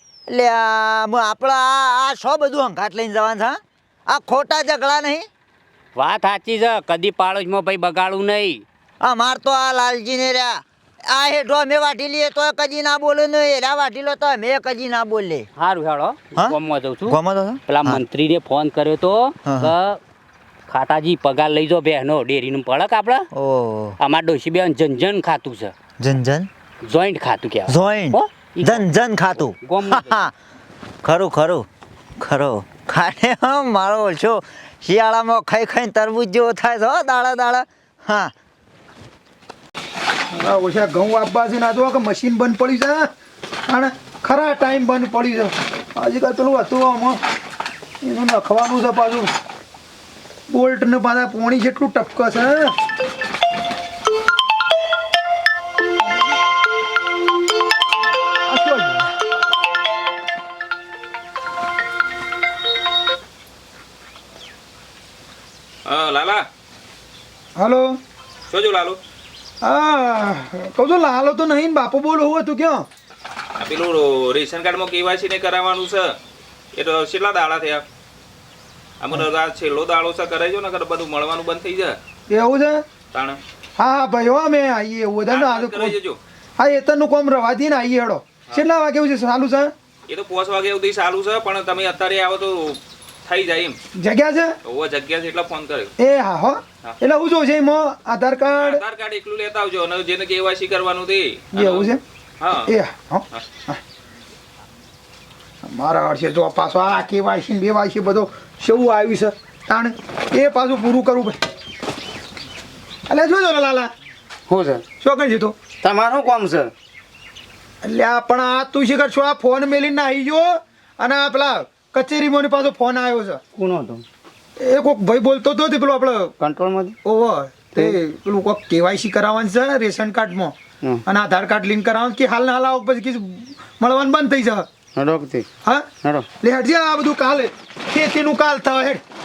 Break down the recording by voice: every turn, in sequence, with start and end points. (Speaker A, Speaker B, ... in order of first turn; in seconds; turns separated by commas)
Speaker A: 0.3-5.3, Speaker B: 6.0-8.6, Speaker A: 9.0-15.5, Speaker B: 15.6-20.0, Speaker A: 17.1-18.0, Speaker A: 19.4-19.7, Speaker B: 20.7-23.3, Speaker A: 23.3-23.9, Speaker B: 24.0-25.7, Speaker A: 26.0-26.5, Speaker B: 26.8-30.2, Speaker A: 27.7-30.3, Speaker A: 31.0-31.6, Speaker A: 32.2-38.3, Speaker C: 40.3-43.1, Speaker C: 43.7-47.2, Speaker C: 48.0-49.3, Speaker C: 50.5-52.7, Speaker C: 58.5-59.1, Speaker D: 65.8-66.4, Speaker C: 67.5-68.0, Speaker D: 68.5-69.0, Speaker C: 69.6-72.9, Speaker D: 73.6-76.2, Speaker D: 76.7-77.8, Speaker D: 79.0-82.0, Speaker C: 82.3-82.8, Speaker D: 83.1-83.4, Speaker C: 83.8-86.0, Speaker D: 85.3-86.2, Speaker C: 86.6-89.7, Speaker D: 90.1-93.8, Speaker C: 93.9-94.5, Speaker D: 94.6-95.9, Speaker C: 96.0-98.8, Speaker D: 98.6-102.7, Speaker C: 101.5-102.0, Speaker C: 102.6-103.8, Speaker C: 105.6-111.4, Speaker C: 113.1-113.9, Speaker E: 114.5-114.8, Speaker C: 115.0-115.6, Speaker E: 115.8-116.7, Speaker C: 117.8-123.4, Speaker E: 123.5-124.0, Speaker C: 124.6-126.3, Speaker E: 126.4-127.0, Speaker C: 127.0-134.7, Speaker E: 134.9-135.5, Speaker C: 135.6-139.0, Speaker E: 136.0-136.3